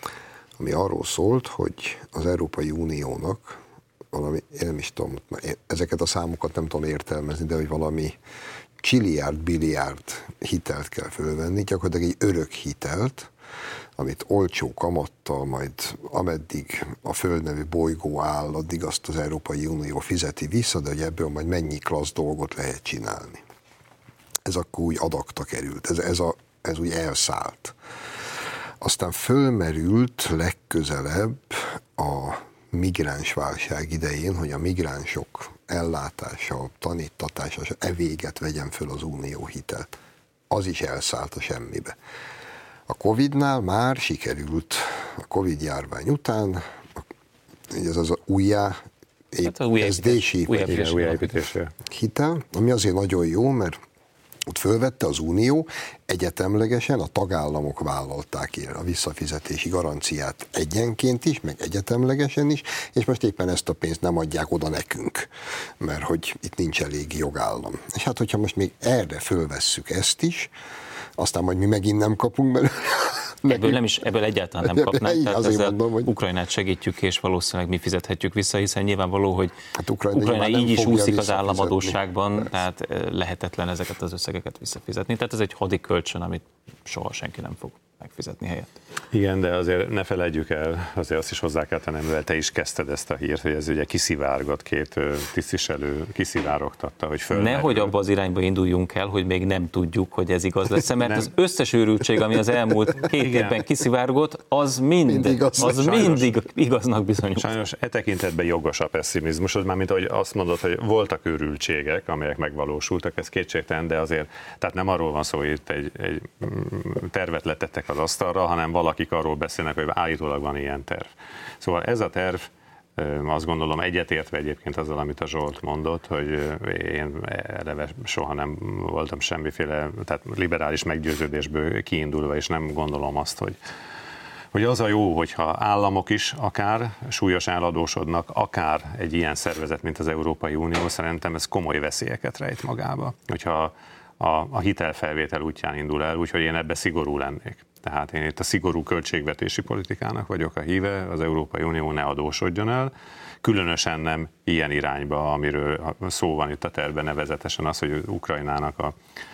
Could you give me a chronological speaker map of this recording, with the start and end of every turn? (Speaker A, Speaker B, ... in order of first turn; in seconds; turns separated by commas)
Speaker A: 0.6-3.6, Speaker A: 4.1-8.2, Speaker A: 8.8-13.3, Speaker A: 14.0-23.4, Speaker A: 24.4-27.8, Speaker A: 28.8-40.0, Speaker A: 40.5-41.9, Speaker A: 42.9-47.0, Speaker A: 47.7-48.8, Speaker A: 49.3-50.7, Speaker B: 49.4-51.3, Speaker C: 50.6-51.7, Speaker A: 51.9-53.8, Speaker A: 54.5-70.5, Speaker A: 71.2-73.8, Speaker B: 73.5-79.5, Speaker A: 74.6-76.1, Speaker A: 79.8-82.0, Speaker B: 80.1-88.7, Speaker C: 89.1-97.9, Speaker B: 97.3-107.5, Speaker C: 103.1-103.6, Speaker A: 105.0-106.1, Speaker C: 105.7-106.2, Speaker C: 107.4-133.6, Speaker C: 134.5-152.9, Speaker C: 153.4-158.9